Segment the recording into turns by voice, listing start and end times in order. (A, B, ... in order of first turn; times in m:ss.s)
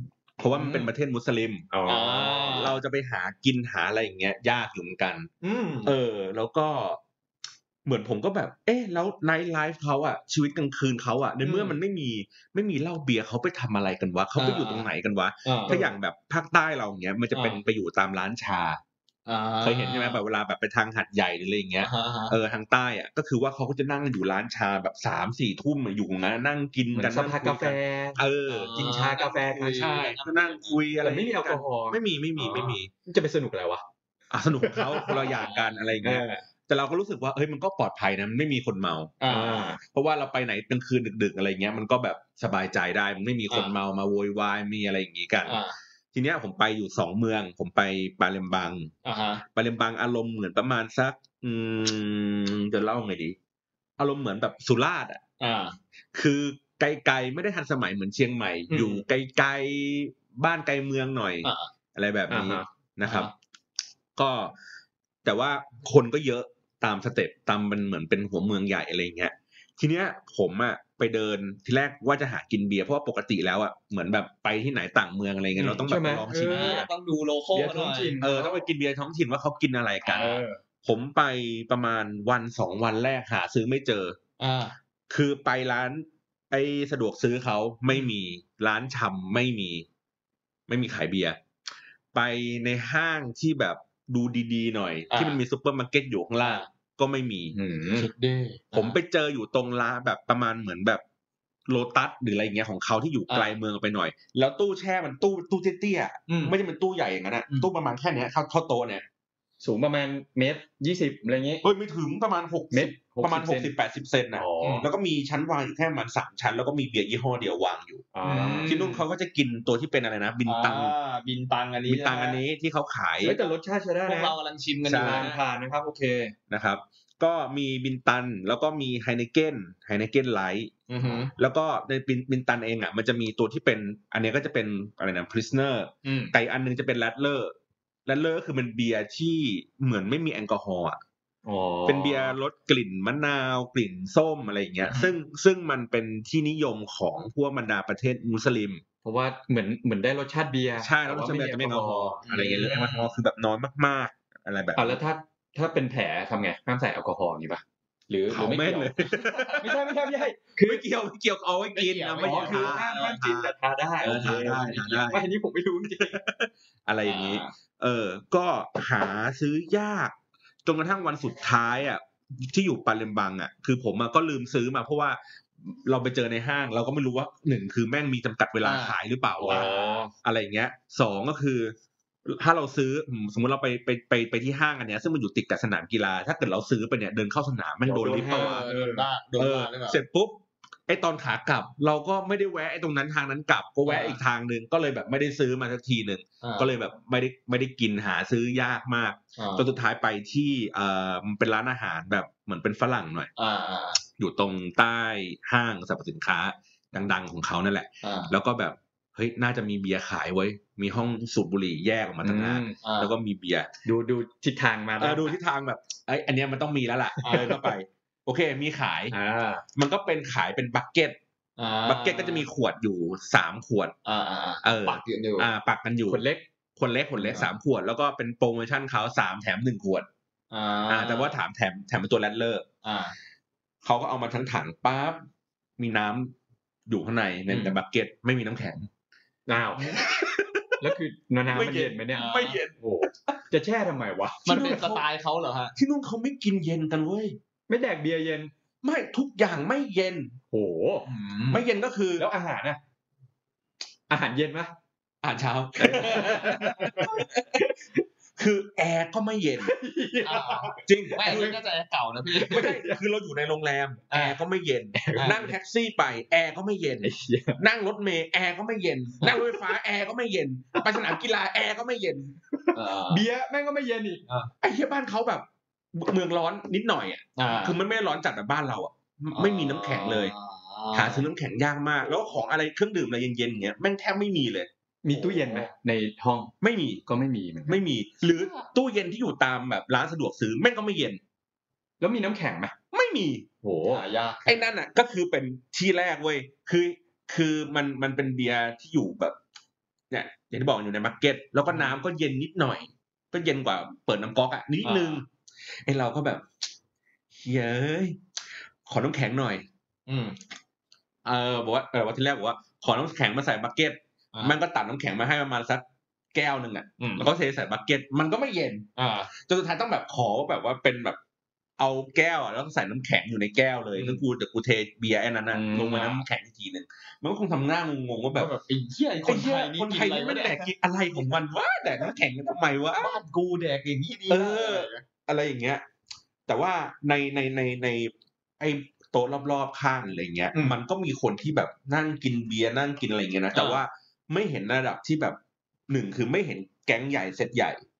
0:00.4-0:01.7 A
0:00.5-0:00.9 B
0:01.7-0:02.6 B
0:01.8-0:02.8 C
0:02.3-0:05.3 A
0:05.4-0:05.9 C
0:05.8-0:07.0 A
0:07.8-0:18.8 A
0:11.4-0:11.8 C
0:14.3-0:14.9 C
0:15.4-0:15.8 C
0:15.7-0:15.9 B
0:17.3-0:17.6 C
0:19.2-0:20.2 C
0:19.6-0:29.0 A
0:21.8-0:22.3 C
0:26.9-0:30.0 B
0:28.5-0:30.8 C
0:29.7-0:32.9 A
0:31.0-0:33.8 B
0:34.3-0:39.2 A
0:34.6-0:35.3 B
0:35.1-0:35.8 C
0:36.0-0:36.4 B
0:39.2-0:39.8 C
0:39.3-0:39.8 B
0:39.8-0:45.6 A
0:43.5-0:43.7 C
0:45.4-0:45.8 C
0:46.1-0:48.9 A
0:49.0-0:49.4 C
0:49.5-0:53.4 A
0:54.0-0:55.2 A
0:55.4-0:55.8 C
0:56.1-1:03.3 A
0:58.7-0:59.0 C
1:01.4-1:01.7 C
1:02.3-1:02.6 B
1:03.0-1:03.3 C
1:04.2-1:04.5 A
1:05.2-1:16.8 A
1:15.6-1:15.8 C
1:15.6-1:16.9 B
1:16.4-1:18.2 C
1:17.5-1:18.7 B
1:18.2-1:24.2 A
1:20.1-1:20.4 C
1:20.1-1:20.6 B
1:24.4-1:24.7 C
1:25.1-1:29.8 A
1:30.7-1:31.4 A
1:32.1-1:37.6 A
1:35.1-1:35.4 C
1:36.4-1:36.7 C
1:37.5-1:38.1 B
1:38.0-1:39.0 C
1:38.7-1:41.0 A
1:41.7-1:49.0 A
1:43.3-1:43.6 C
1:46.3-1:46.5 C
1:49.6-1:51.6 B
1:51.6-1:58.1 A
1:52.7-1:53.7 B
1:54.4-1:54.9 B
1:54.6-1:54.9 C
1:58.1-1:58.9 B
1:58.2-1:59.0 C
1:58.6-2:00.9 A
2:00.4-2:02.4 C
2:01.9-2:03.4 A
2:03.2-2:04.4 B
2:04.0-2:05.4 C
2:04.9-2:05.3 A
2:04.9-2:06.4 B
2:06.5-2:17.5 A
2:10.9-2:11.3 C
2:16.0-2:16.3 C
2:18.0-2:21.0 A
2:21.4-2:22.4 B
2:21.8-2:28.8 A
2:24.8-2:25.1 C
2:29.0-2:32.2 B
2:30.8-2:35.0 A
2:32.2-2:33.1 C
2:34.8-2:39.0 B
2:38.3-2:39.9 A
2:39.1-2:39.6 C
2:39.6-2:40.8 B
2:40.6-2:45.2 A
2:41.7-2:43.2 C
2:42.2-2:46.2 B
2:45.9-2:50.1 A
2:47.0-2:47.5 C
2:50.6-2:59.7 A
2:58.6-3:00.0 C
2:59.4-3:00.1 B
3:00.2-3:01.7 A
3:02.2-3:08.7 A
3:07.8-3:09.1 B
3:08.1-3:10.0 C
3:09.4-3:23.3 A
3:13.8-3:14.2 C
3:16.4-3:16.7 C
3:19.4-3:19.6 C
3:23.4-3:24.0 C
3:24.2-3:33.7 A
3:28.0-3:28.3 C
3:32.2-3:32.8 B
3:32.8-3:33.1 C
3:33.8-3:35.4 B
3:35.0-3:39.1 A
3:37.2-3:37.6 C
3:39.1-3:39.6 C
3:39.7-3:41.2 A
3:41.6-3:42.4 C
3:41.8-3:43.9 A
3:44.0-3:45.5 C
3:44.6-3:46.2 A
3:46.1-3:46.4 B
3:46.8-3:50.1 A
3:47.2-3:47.5 C
3:50.5-3:51.4 C
3:50.9-3:52.7 A
3:52.8-3:53.1 C
3:53.8-3:55.2 A
3:55.8-3:56.3 A
3:56.9-3:58.9 A
3:57.5-3:57.8 C
3:59.5-4:00.0 B
3:59.9-4:02.8 A
4:00.8-4:04.5 B
4:02.1-4:02.6 C
4:04.4-4:05.8 C
4:04.5-4:05.0 A
4:05.8-4:07.4 A
4:07.7-4:08.5 B
4:08.8-4:10.4 A
4:10.5-4:11.0 B
4:11.0-4:11.6 C
4:11.5-4:12.3 A
4:12.2-4:12.8 B
4:14.1-4:14.7 B
4:15.2-4:17.7 A
4:15.8-4:18.0 B
4:18.4-4:19.7 A
4:19.6-4:21.5 B
4:20.2-4:22.8 C
4:20.8-4:21.6 A
4:22.4-4:32.4 A
4:22.5-4:23.0 B
4:24.1-4:24.4 C
4:24.9-4:25.5 B
4:27.0-4:27.6 B
4:29.2-4:29.7 B
4:30.7-4:31.2 B
4:32.5-4:34.2 B
4:32.7-4:33.2 C
4:34.6-4:40.3 A
4:37.4-4:37.8 C
4:39.3-4:41.3 C
4:40.9-4:45.7 A
4:45.0-4:46.5 B
4:46.6-4:47.0 A
4:47.0-4:47.8 B
4:47.7-4:51.2 A
4:48.2-4:48.7 C
4:52.0-4:52.8 B
4:52.9-4:53.5 A
4:53.6-4:54.0 B
4:53.9-4:54.7 C
4:54.4-4:59.4 A
5:00.1-5:05.3 A
5:01.7-5:02.0 C
5:04.8-5:05.2 C
5:05.8-5:06.5 A
5:07.4-5:08.2 A
5:08.8-5:09.6 A
5:10.1-5:10.4 C
5:11.2-5:21.2 A
5:17.0-5:17.3 C
5:19.0-5:19.3 C
5:21.8-5:28.5 A
5:24.0-5:24.2 C
5:25.5-5:26.0 B
5:25.7-5:26.2 C
5:28.3-5:30.7 C
5:29.2-5:33.2 A
5:31.8-5:32.1 C
5:33.0-5:35.0 C
5:34.3-5:35.8 A
5:36.5-5:45.4 A
5:43.5-5:43.8 C
5:45.9-5:47.8 A